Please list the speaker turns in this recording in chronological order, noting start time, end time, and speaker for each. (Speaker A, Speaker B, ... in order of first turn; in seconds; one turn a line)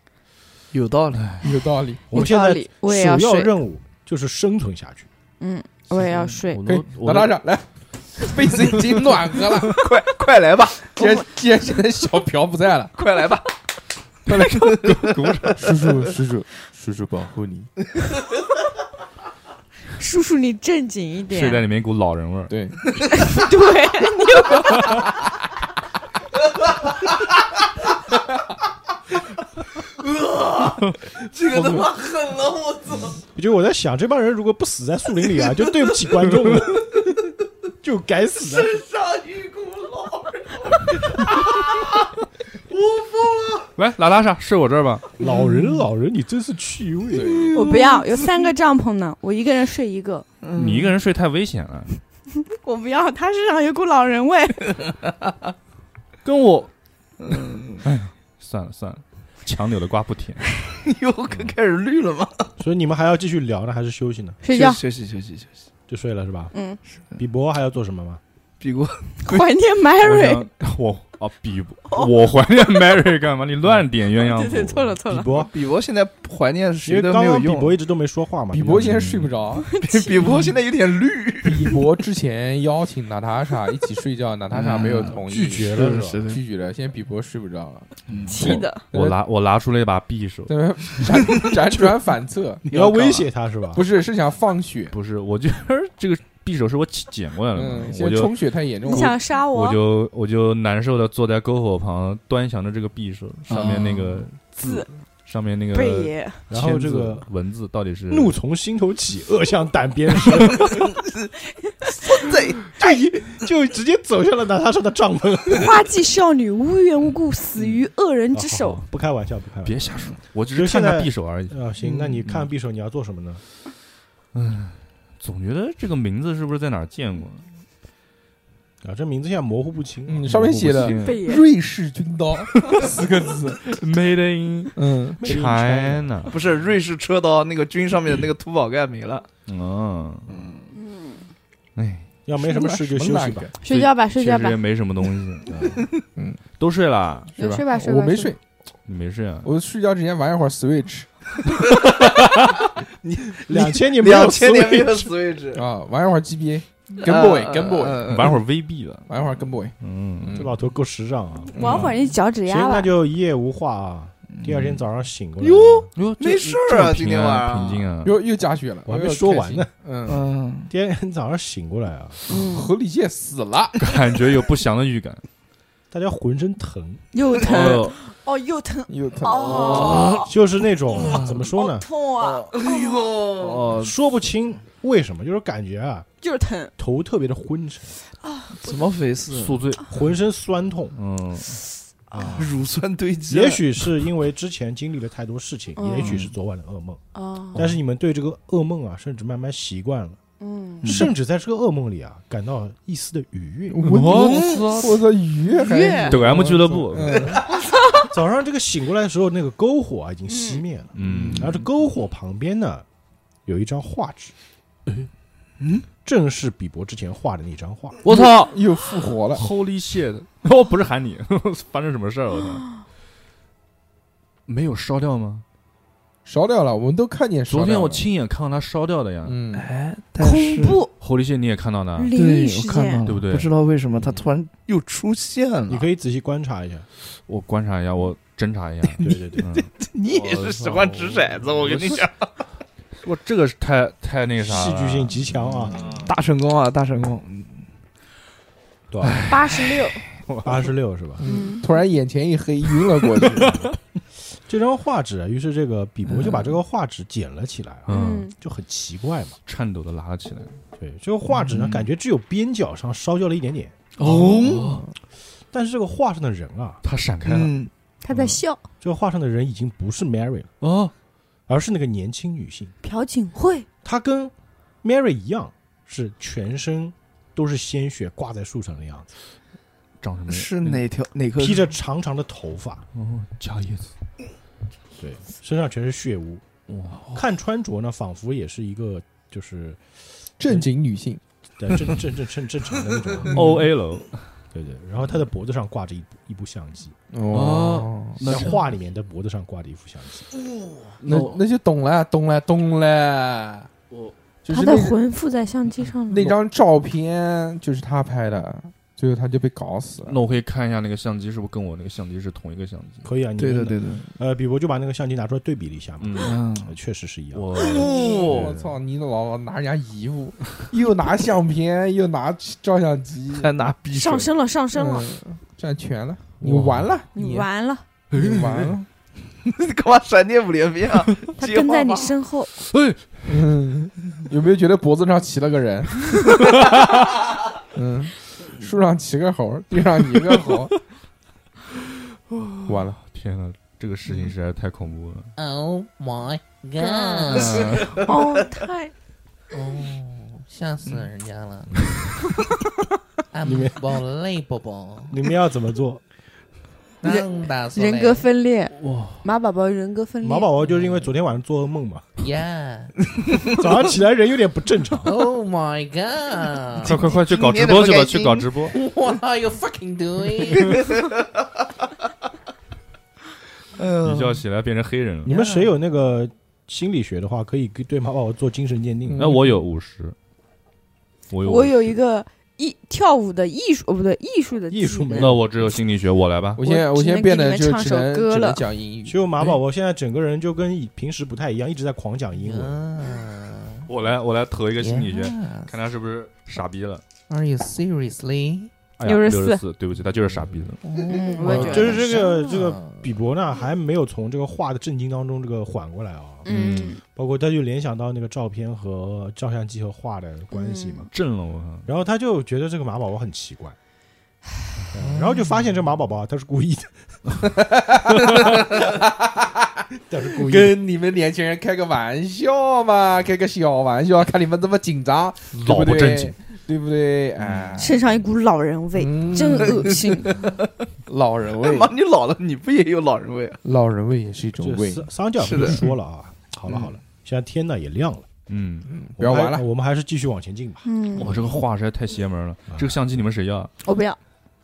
Speaker A: 0.7-1.6
Speaker B: 1.1-1.4
Speaker C: 1.4-2.0
Speaker D: 2.1-5.1
Speaker E: 2.1-3.5
Speaker E: 5.4-6.6
Speaker B: 6.5-7.4
Speaker C: 6.7-9.8
Speaker A: 9.6-10.9
Speaker C: 10.9-13.0
Speaker E: 11.0-11.2
Speaker A: 13.0-13.5
Speaker C: 14.3-14.6
Speaker A: 14.3-16.1
Speaker B: 14.4-15.6
Speaker C: 15.6-17.7
Speaker E: 20.0-21.6
Speaker B: 21.3-22.6
Speaker C: 22.5-22.8
Speaker A: 23.0-23.4
Speaker E: 23.1-24.8
Speaker A: 29.9-33.2
Speaker C: 31.6-31.9
Speaker D: 33.3-37.0
Speaker D: 37.8-38.8
Speaker A: 38.5-42.1
Speaker A: 42.7-43.7
Speaker B: 43.8-45.1
Speaker A: 45.2-45.9
Speaker D: 45.2-47.5
Speaker C: 47.1-47.5
Speaker A: 47.4-48.5
Speaker E: 47.5-50.3
Speaker A: 50.4-51.0
Speaker B: 50.5-52.0
Speaker E: 52.5-54.8
Speaker B: 56.2-56.7
Speaker A: 57.2-57.8
Speaker B: 57.8-60.5
Speaker A: 60.8-62.5
Speaker D: 62.6-64.4
Speaker E: 64.4-64.8
Speaker A: 64.5-65.7
Speaker D: 65.9-66.5
Speaker E: 66.5-66.8
Speaker D: 67.2-68.2
Speaker A: 68.6-69.5
Speaker E: 69.2-70.4
Speaker B: 70.0-75.0
Speaker E: 74.2-75.5
Speaker D: 75.1-75.5
Speaker A: 75.5-77.8
Speaker D: 76.8-79.1
Speaker C: 78.5-79.7
Speaker B: 78.8-79.3
Speaker E: 79.5-80.2
Speaker A: 79.8-81.8
Speaker C: 81.4-87.9
Speaker A: 84.5-86.4
Speaker B: 84.6-85.0
Speaker D: 85.2-86.2
Speaker B: 88.1-90.5
Speaker E: 88.3-88.8
Speaker C: 88.4-89.2
Speaker C: 90.5-94.9
Speaker D: 92.7-93.8
Speaker B: 94.9-108.3
Speaker C: 97.5-99.1
Speaker E: 98.8-99.8
Speaker A: 103.5-104.2
Speaker E: 104.6-104.9
Speaker E: 105.7-106.4
Speaker D: 106.5-107.3
Speaker D: 108.1-110.9
Speaker A: 110.5-111.1
Speaker A: 111.8-113.0
Speaker D: 112.8-115.8
Speaker E: 115.5-118.8
Speaker D: 118.3-123.4
Speaker B: 119.6-121.6
Speaker B: 122.2-122.5
Speaker B: 124.3-127.5
Speaker D: 128.8-130.9
Speaker C: 130.1-133.7
Speaker B: 130.3-131.2
Speaker E: 131.0-131.5
Speaker B: 132.5-132.9
Speaker B: 133.7-136.3
Speaker C: 134.8-135.3
Speaker D: 135.2-136.3
Speaker A: 136.3-139.3
Speaker B: 139.5-140.5
Speaker A: 140.3-140.7
Speaker E: 140.7-141.2
Speaker B: 141.8-142.1
Speaker D: 142.3-143.5
Speaker C: 142.4-143.6
Speaker E: 143.6-144.6
Speaker B: 143.7-145.8
Speaker D: 145.5-145.8
Speaker C: 146.2-146.4
Speaker B: 146.6-147.3
Speaker C: 147.4-148.4
Speaker E: 147.4-148.3
Speaker B: 148.9-149.5
Speaker C: 149.4-151.1
Speaker A: 151.8-152.4
Speaker A: 153.0-155.7
Speaker D: 153.5-155.1
Speaker C: 155.5-158.1
Speaker A: 157.0-158.4
Speaker B: 158.1-160.5
Speaker C: 159.1-160.5
Speaker D: 160.3-161.9
Speaker C: 161.5-161.9
Speaker E: 161.6-162.9
Speaker D: 162.4-165.9
Speaker B: 164.5-164.8
Speaker A: 165.4-167.9
Speaker B: 165.9-168.2
Speaker C: 168.0-170.3
Speaker D: 168.9-169.7
Speaker A: 170.1-170.7
Speaker D: 170.7-172.2
Speaker E: 172.3-172.7
Speaker C: 172.3-173.8
Speaker B: 173.8-175.2
Speaker D: 175.9-177.0
Speaker E: 177.1-180.3
Speaker B: 177.4-178.0
Speaker C: 178.9-180.1
Speaker A: 179.4-180.3
Speaker B: 179.5-180.3
Speaker D: 180.2-181.9
Speaker B: 180.9-181.4
Speaker E: 181.6-183.1
Speaker A: 182.2-183.8
Speaker B: 183.4-184.0
Speaker D: 183.8-186.1
Speaker E: 186.2-186.7
Speaker D: 186.8-187.9
Speaker E: 188.2-188.8
Speaker A: 188.5-189.6
Speaker B: 189.3-190.0
Speaker D: 189.9-190.9
Speaker B: 190.9-191.6
Speaker D: 192.1-192.6
Speaker A: 192.2-193.8
Speaker D: 193.3-197.0
Speaker E: 195.8-196.2
Speaker A: 196.0-196.3
Speaker E: 197.1-197.7
Speaker D: 197.5-200.2
Speaker E: 200.4-201.0
Speaker D: 200.8-203.9
Speaker C: 203.7-207.5
Speaker B: 203.8-205.0
Speaker A: 204.1-204.9
Speaker E: 205.5-206.2
Speaker B: 206.0-207.4
Speaker D: 208.1-212.8
Speaker E: 210.3-210.6
Speaker B: 210.9-211.7
Speaker D: 213.5-214.3
Speaker A: 215.6-215.8
Speaker D: 216.1-218.0
Speaker B: 218.0-218.6
Speaker C: 218.1-219.5
Speaker B: 219.3-222.7
Speaker B: 224.5-225.4
Speaker C: 226.3-228.1
Speaker B: 227.5-229.4
Speaker C: 229.2-229.7
Speaker A: 229.5-230.8
Speaker E: 230.2-230.9
Speaker B: 231.0-232.1
Speaker E: 232.0-233.1
Speaker A: 232.1-235.9
Speaker B: 233.1-234.2
Speaker D: 235.7-236.9
Speaker B: 237.3-242.0
Speaker D: 239.0-239.5
Speaker A: 239.8-242.3
Speaker B: 243.0-246.1
Speaker D: 244.4-246.1
Speaker A: 245.7-247.6
Speaker D: 248.9-249.3
Speaker B: 249.0-250.7
Speaker E: 249.3-250.0
Speaker D: 250.4-251.2
Speaker C: 251.2-253.7
Speaker E: 251.2-251.7
Speaker D: 253.4-253.7
Speaker D: 254.5-259.4
Speaker A: 256.1-256.6
Speaker B: 257.9-258.3
Speaker E: 257.9-258.3
Speaker B: 259.5-260.6
Speaker D: 260.8-263.8
Speaker A: 261.4-261.9
Speaker B: 264.0-264.8
Speaker A: 264.0-264.8
Speaker D: 265.5-266.8
Speaker B: 266.8-267.6
Speaker A: 267.3-267.7
Speaker E: 268.0-268.6
Speaker B: 268.1-268.4
Speaker D: 268.8-270.5
Speaker B: 270.6-270.9
Speaker D: 271.5-272.7
Speaker E: 272.8-273.7
Speaker D: 273.8-279.1
Speaker B: 280.0-280.9
Speaker A: 280.3-281.7
Speaker D: 281.4-282.8
Speaker B: 282.9-283.9
Speaker D: 285.0-286.4
Speaker B: 286.7-287.1
Speaker D: 287.1-289.8
Speaker C: 290.4-291.2
Speaker D: 291.6-293.5
Speaker B: 293.3-294.2
Speaker D: 294.5-296.9
Speaker C: 297.1-298.5
Speaker B: 297.3-298.7
Speaker D: 298.2-300.3
Speaker C: 301.0-303.7
Speaker B: 301.0-301.4
Speaker C: 304.4-305.0
Speaker E: 304.5-306.4
Speaker C: 306.1-310.2
Speaker B: 310.1-313.1
Speaker D: 313.0-317.5
Speaker A: 313.4-314.1
Speaker B: 316.0-316.4
Speaker A: 316.2-316.7
Speaker B: 317.3-318.8
Speaker A: 317.6-318.5
Speaker C: 317.8-323.5
Speaker A: 323.3-324.3
Speaker E: 323.9-325.1
Speaker C: 324.7-327.5
Speaker B: 326.4-326.9
Speaker E: 327.1-327.8
Speaker C: 328.1-328.9
Speaker B: 328.1-328.7
Speaker A: 329.4-332.1
Speaker E: 331.4-332.5
Speaker B: 332.6-333.2
Speaker C: 333.3-336.0
Speaker C: 337.7-340.7
Speaker B: 342.3-345.3
Speaker C: 342.7-343.0
Speaker A: 344.1-344.3
Speaker F: 345.4-347.8
Speaker E: 346.8-348.9
Speaker A: 347.4-348.2
Speaker F: 349.5-351.8
Speaker F: 353.3-355.2
Speaker D: 353.4-353.8
Speaker D: 355.1-356.0
Speaker F: 357.0-358.3
Speaker E: 357.0-360.5
Speaker B: 358.8-359.2
Speaker D: 360.2-362.1
Speaker F: 362.2-362.9
Speaker A: 363.1-363.8
Speaker D: 363.5-365.2
Speaker F: 365.0-367.1
Speaker B: 366.8-368.8
Speaker A: 366.9-368.5
Speaker F: 368.7-370.8
Speaker A: 370.4-371.5
Speaker A: 373.8-374.4
Speaker B: 374.0-375.3
Speaker D: 375.2-379.4
Speaker A: 375.3-375.7
Speaker B: 379.2-380.2
Speaker B: 381.3-381.9
Speaker E: 381.4-385.4
Speaker D: 384.7-385.6
Speaker B: 385.1-386.6
Speaker C: 386.6-389.3
Speaker E: 386.6-388.6
Speaker D: 389.1-392.9
Speaker F: 392.4-393.9
Speaker B: 393.9-397.0
Speaker F: 394.8-395.7
Speaker F: 397.3-398.7
Speaker B: 399.0-400.8
Speaker E: 399.0-399.6
Speaker F: 400.9-402.8
Speaker E: 401.1-402.3
Speaker D: 401.4-406.5
Speaker C: 401.4-401.9
Speaker E: 406.4-407.0
Speaker B: 406.5-406.9
Speaker D: 407.0-411.1
Speaker E: 410.5-411.1
Speaker B: 411.1-411.9
Speaker D: 411.9-413.8
Speaker D: 414.9-417.0
Speaker C: 417.6-419.8
Speaker D: 420.1-420.8
Speaker C: 420.3-428.0
Speaker B: 425.5-426.4
Speaker B: 427.4-427.8
Speaker E: 427.8-430.3
Speaker C: 429.0-430.5
Speaker A: 429.7-430.7
Speaker C: 431.1-431.9
Speaker A: 431.5-433.6
Speaker C: 433.6-435.1
Speaker D: 434.6-438.3
Speaker A: 435.4-435.9
Speaker C: 436.7-436.9
Speaker B: 438.5-438.9
Speaker C: 438.9-439.6
Speaker D: 439.2-440.9
Speaker E: 440.9-441.4
Speaker B: 441.1-443.7
Speaker D: 442.7-443.0
Speaker E: 443.8-444.2